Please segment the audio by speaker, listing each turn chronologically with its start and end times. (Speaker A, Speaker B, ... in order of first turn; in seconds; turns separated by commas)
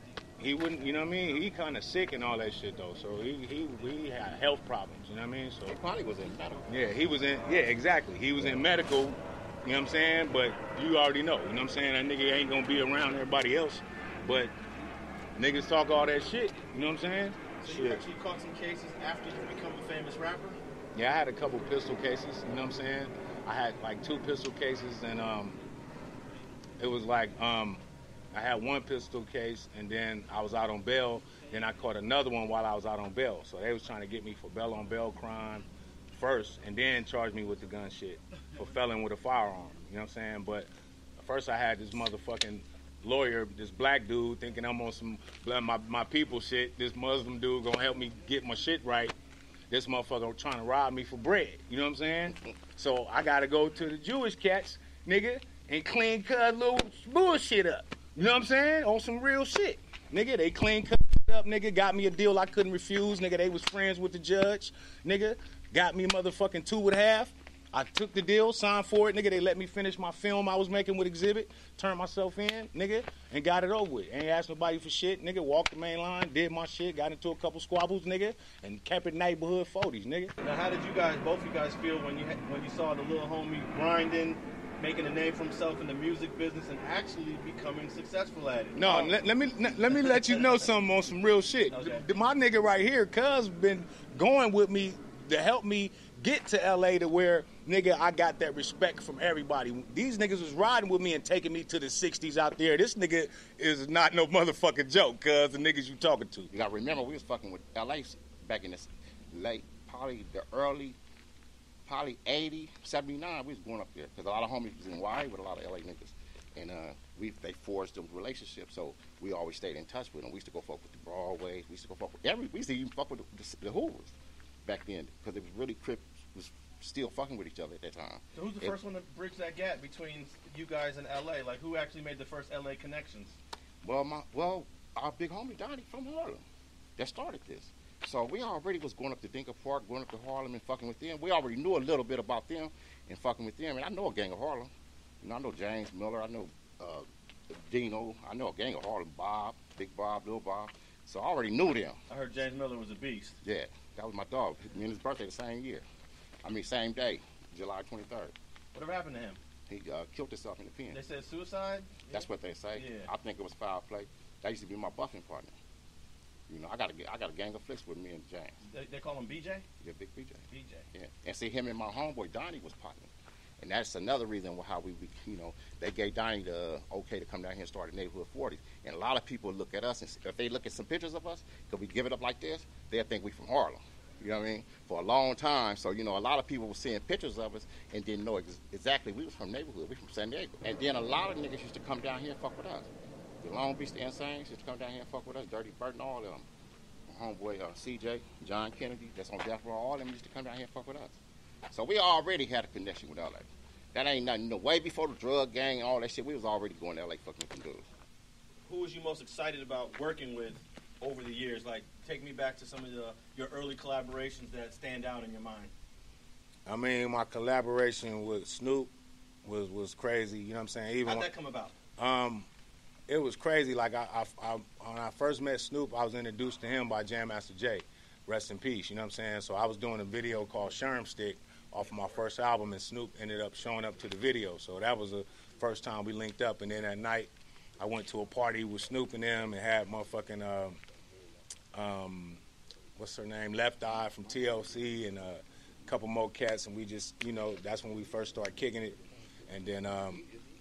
Speaker A: 0.4-5.8, Speaker B: 5.7-6.7, Speaker A: 6.7-14.5, Speaker A: 15.3-18.0, Speaker C: 17.6-20.6, Speaker A: 20.9-25.6, Speaker A: 26.8-49.1, Speaker A: 49.7-80.3, Speaker C: 80.4-89.2, Speaker A: 88.7-106.5, Speaker C: 90.0-90.4, Speaker C: 91.7-92.0, Speaker B: 106.5-111.0, Speaker B: 111.8-124.1, Speaker B: 124.6-128.8, Speaker C: 128.3-133.3, Speaker B: 133.8-136.4, Speaker B: 137.0-144.7, Speaker B: 145.2-152.0, Speaker C: 152.1-153.4, Speaker B: 153.4-155.8, Speaker B: 156.4-158.3, Speaker C: 158.7-159.4, Speaker B: 159.7-161.0, Speaker C: 160.9-163.1, Speaker B: 162.1-165.6, Speaker B: 166.5-168.6, Speaker C: 168.7-169.6, Speaker B: 169.8-192.9, Speaker C: 170.5-170.8, Speaker B: 193.4-196.4, Speaker B: 197.1-201.2, Speaker B: 201.7-207.9, Speaker C: 208.7-215.7, Speaker A: 216.7-218.9, Speaker A: 219.4-221.3, Speaker C: 221.0-221.7, Speaker A: 222.0-222.5, Speaker A: 223.1-240.8, Speaker A: 241.7-242.4, Speaker A: 243.0-249.0, Speaker A: 249.5-250.2